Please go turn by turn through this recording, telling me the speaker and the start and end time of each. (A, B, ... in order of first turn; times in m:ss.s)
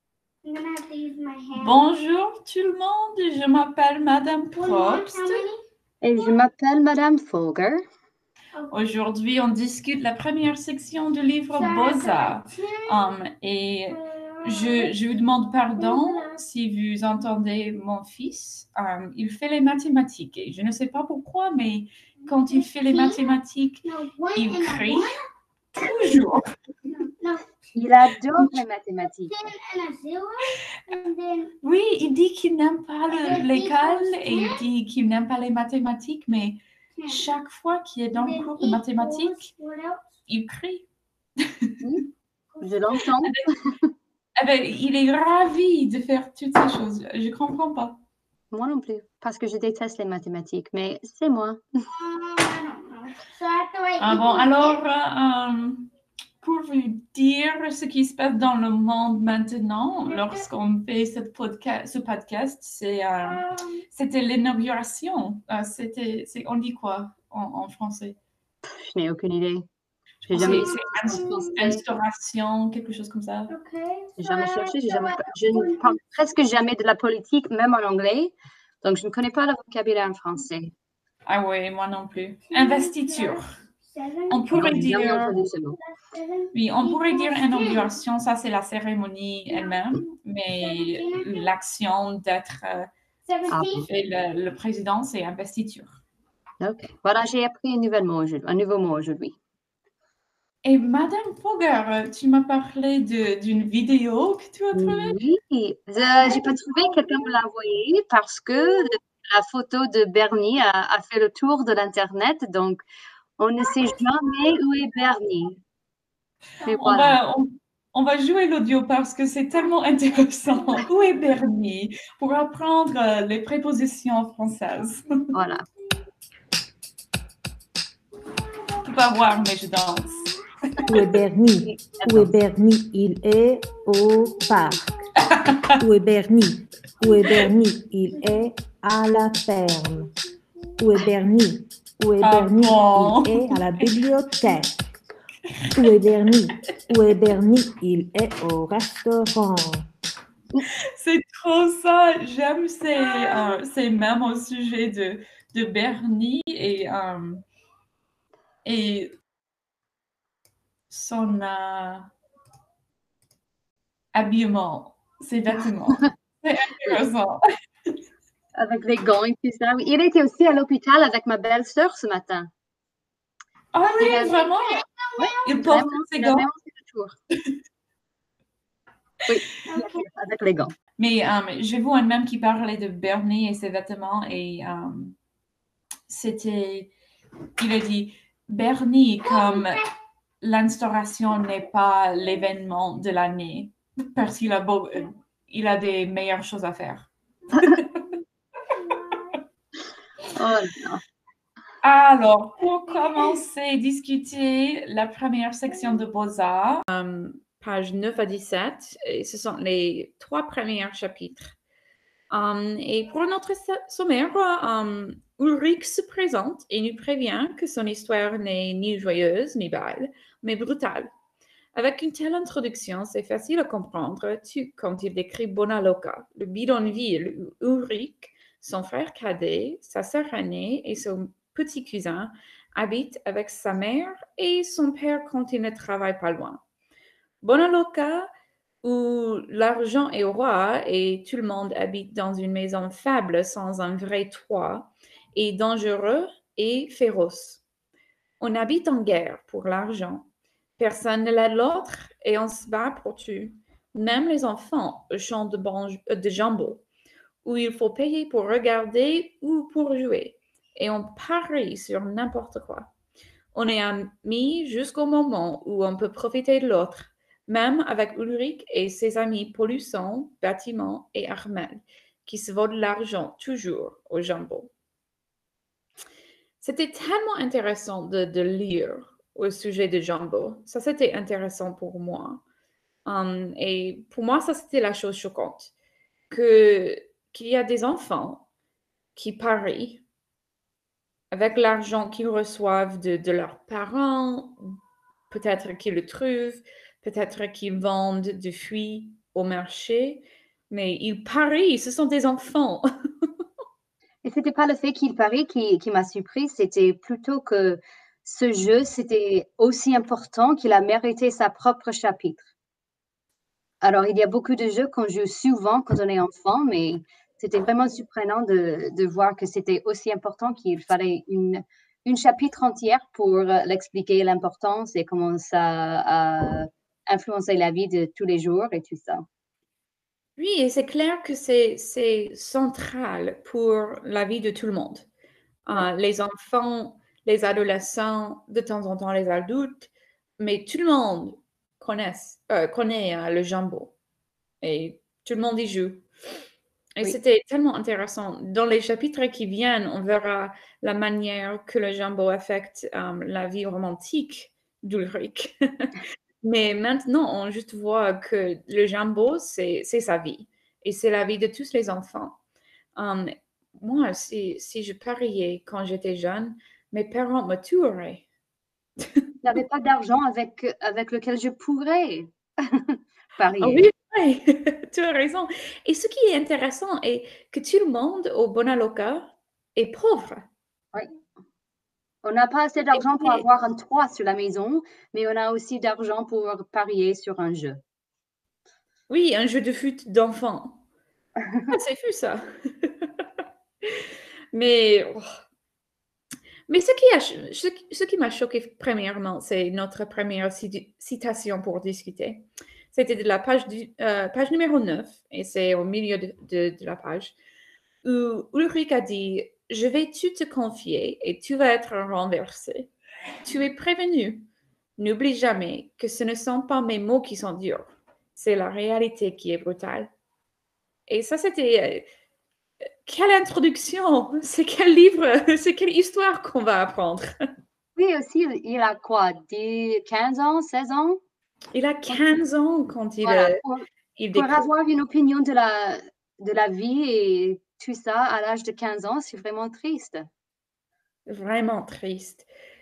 0:00.4-0:01.8 A
0:01.6-0:05.5 B
0:04.6-0:05.6 A
0:06.0-0:07.8 C
0:08.7-0:25.1 B
0:11.5-0:12.9 A
0:14.2-0:14.9 A
0:15.8-0:16.3 A
0:22.8-0:23.2 A
0:23.9-0:25.1 A
0:25.8-0:26.5 B
0:27.1-0:27.5 A
0:27.8-0:29.4 C
0:29.3-0:31.5 A
0:31.6-0:39.5 B
0:33.1-0:34.6 A
0:37.0-0:37.2 A
0:38.2-0:40.0 A
0:40.3-0:40.9 B
0:41.8-0:42.1 C
0:42.6-0:43.9 C
0:44.4-0:48.0 B
0:48.5-0:51.6 C
0:52.0-0:54.8 A
0:54.0-0:55.9 B
0:56.4-1:08.2 B
1:08.7-1:09.7 C
1:10.2-1:13.5 B
1:10.3-1:11.8 C
1:10.4-1:11.5 A
1:13.5-1:16.0 A
1:14.2-1:20.7 C
1:21.3-1:23.5 B
1:22.5-1:27.9 A
1:24.3-1:25.3 B
1:24.5-1:25.8 C
1:26.5-1:32.9 B
1:29.5-1:29.8 A
1:30.6-1:31.5 A
1:33.3-1:33.8 A
1:33.5-1:33.8 C
1:33.8-1:36.0 B
1:36.6-1:39.4 C
1:40.6-1:45.2 B
1:44.7-1:52.8 C
1:53.4-1:55.6 C
1:56.6-1:57.2 C
1:56.7-2:05.3 B
2:05.3-2:05.6 C
2:08.8-2:11.0 B
2:10.9-2:14.8 D
2:11.6-2:12.3 C
2:15.2-2:15.7 B
2:15.8-2:20.1 D
2:20.8-2:24.8 D
2:22.2-2:23.9 B
2:25.8-2:29.8 D
2:31.0-2:37.4 B
2:38.6-2:39.2 B
2:40.9-2:42.1 B
2:44.1-2:47.4 B
2:48.6-2:52.5 C
2:53.7-2:54.8 B
2:53.8-2:55.5 A
2:54.0-2:54.5 C
2:55.2-2:57.2 C
2:55.4-2:56.5 B
2:59.3-3:00.7 C
2:59.6-3:00.1 A
3:01.0-3:05.2 B
3:06.1-3:06.9 B
3:07.6-3:09.9 B
3:09.4-3:09.8 A
3:10.4-3:18.0 B
3:20.3-3:21.0 C
3:21.8-3:31.6 B
3:32.3-3:41.1 B
3:41.8-3:56.6 B
3:57.4-3:58.3 B
3:58.8-4:07.6 B
4:08.4-4:16.8 B
4:17.4-4:22.9 B
4:23.5-4:34.7 B
4:36.6-4:42.4 B
4:43.0-4:45.7 B
4:46.3-4:48.4 B
4:49.2-4:50.0 B
4:51.3-4:54.6 B
4:55.3-5:02.8 B
5:04.2-5:12.5 C
5:13.8-5:29.2 C
5:30.4-5:35.1 B
5:35.6-5:43.9 B
5:44.6-5:46.1 B
5:47.0-6:02.4 B
6:03.0-6:08.2 B
6:09.4-6:13.8 C
6:13.6-6:20.4 B
6:22.2-6:27.8 C
6:22.9-6:23.4 B
6:29.1-6:30.8 B
6:31.7-6:33.3 B
6:34.5-6:35.2 B
6:36.7-6:47.4 B
6:48.0-6:52.9 B
6:53.4-7:00.1 B
7:01.1-7:02.0 B
7:03.0-7:07.3 B
7:08.0-7:11.2 C
7:11.7-7:13.6 B
7:13.2-7:20.3 C
7:14.2-7:14.7 B
7:21.3-7:22.5 B